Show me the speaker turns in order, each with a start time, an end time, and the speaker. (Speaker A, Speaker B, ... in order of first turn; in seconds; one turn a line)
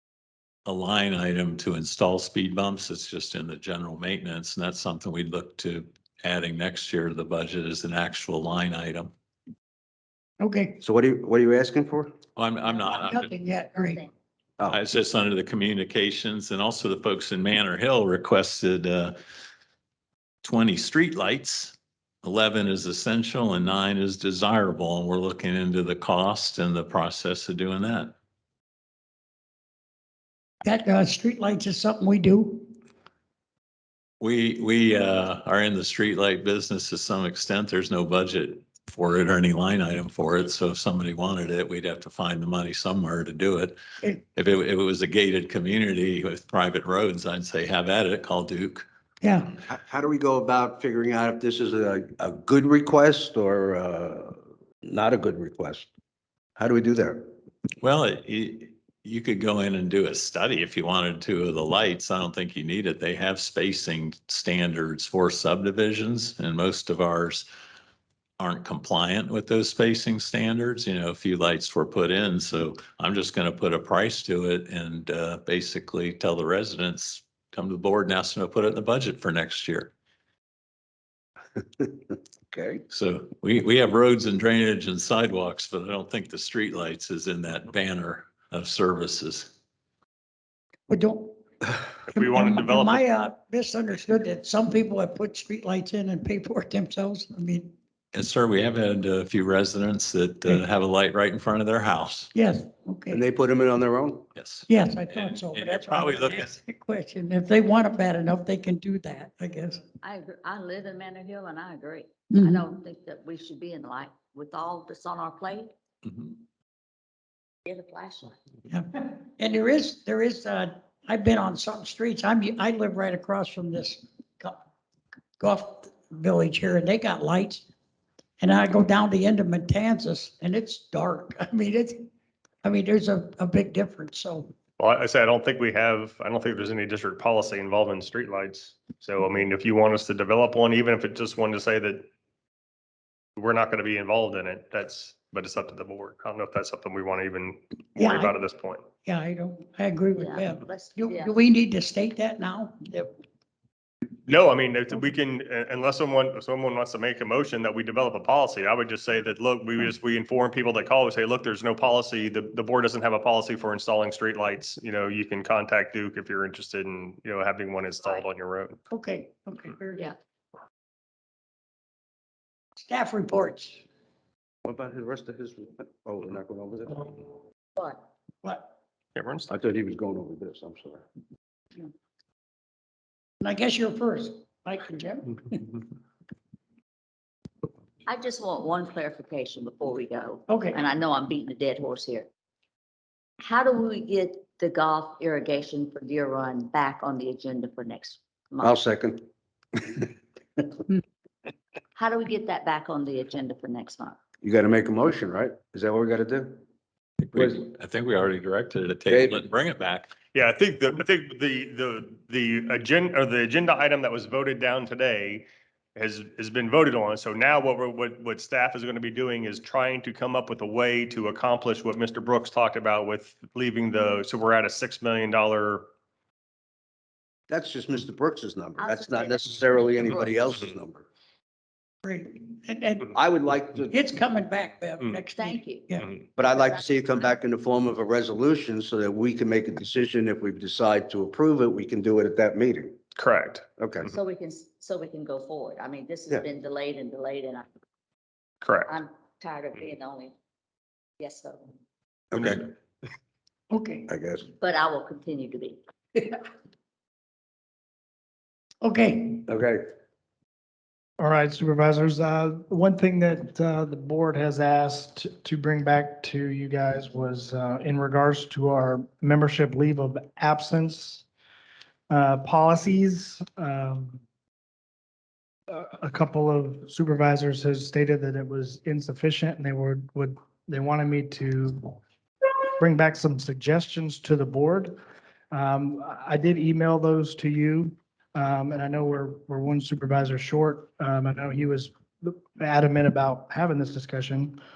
Speaker A: 0.7-9.1
Speaker B: 10.4-10.8
Speaker C: 10.8-12.1
Speaker A: 12.3-13.3
Speaker D: 12.6-13.0
Speaker B: 12.9-14.0
Speaker D: 13.8-14.1
Speaker A: 14.7-19.2
Speaker A: 20.4-28.1
Speaker B: 30.6-32.7
Speaker A: 34.2-48.8
Speaker B: 49.2-49.5
Speaker C: 49.6-55.9
Speaker C: 56.6-57.2
Speaker A: 57.8-67.5
Speaker A: 68.4-79.9
Speaker C: 82.5-82.8
Speaker A: 82.9-89.5
Speaker B: 90.9-91.4
Speaker E: 92.1-93.0
Speaker B: 92.1-97.7
Speaker A: 98.1-102.3
Speaker B: 102.3-103.2
Speaker C: 103.1-104.2
Speaker A: 104.3-106.5
Speaker B: 104.7-109.8
Speaker D: 110.0-115.7
Speaker B: 112.3-112.7
Speaker A: 116.0-116.3
Speaker D: 117.7-118.3
Speaker B: 118.7-124.6
Speaker B: 125.4-127.6
Speaker B: 128.4-132.1
Speaker B: 132.6-134.5
Speaker E: 134.8-142.1
Speaker E: 143.4-148.8
Speaker B: 148.0-148.3
Speaker B: 149.0-153.1
Speaker D: 150.2-151.4
Speaker E: 154.3-168.8
Speaker B: 168.9-170.1
Speaker B: 172.8-173.8
Speaker C: 174.6-177.2
Speaker D: 177.8-178.0
Speaker B: 178.4-178.7
Speaker E: 179.1-179.5
Speaker C: 179.5-181.0
Speaker B: 183.4-185.6
Speaker D: 188.1-192.3
Speaker B: 190.5-190.8
Speaker D: 193.4-198.8
Speaker C: 198.6-199.2
Speaker C: 199.8-200.0
Speaker D: 201.9-204.2
Speaker C: 204.4-206.6
Speaker A: 207.2-210.1
Speaker C: 207.3-207.6
Speaker C: 209.1-209.4
Speaker E: 210.3-225.8
Speaker C: 227.5-231.1
Speaker D: 228.8-229.5
Speaker B: 232.0-233.1
Speaker C: 233.1-233.9
Speaker B: 233.9-236.1
Speaker D: 235.2-237.4
Speaker C: 236.4-242.9
Speaker E: 243.2-244.1
Speaker C: 243.8-244.1
Speaker D: 244.1-247.7
Speaker E: 248.6-248.9
Speaker D: 248.9-250.3
Speaker D: 251.2-251.7
Speaker C: 252.3-252.7
Speaker B: 253.7-254.1
Speaker C: 254.1-254.4
Speaker D: 254.6-255.8
Speaker B: 258.8-259.4
Speaker C: 259.5-259.8
Speaker F: 261.2-271.2
Speaker F: 272.1-274.2
Speaker F: 275.7-282.0
Speaker F: 282.8-285.0
Speaker F: 285.5-294.6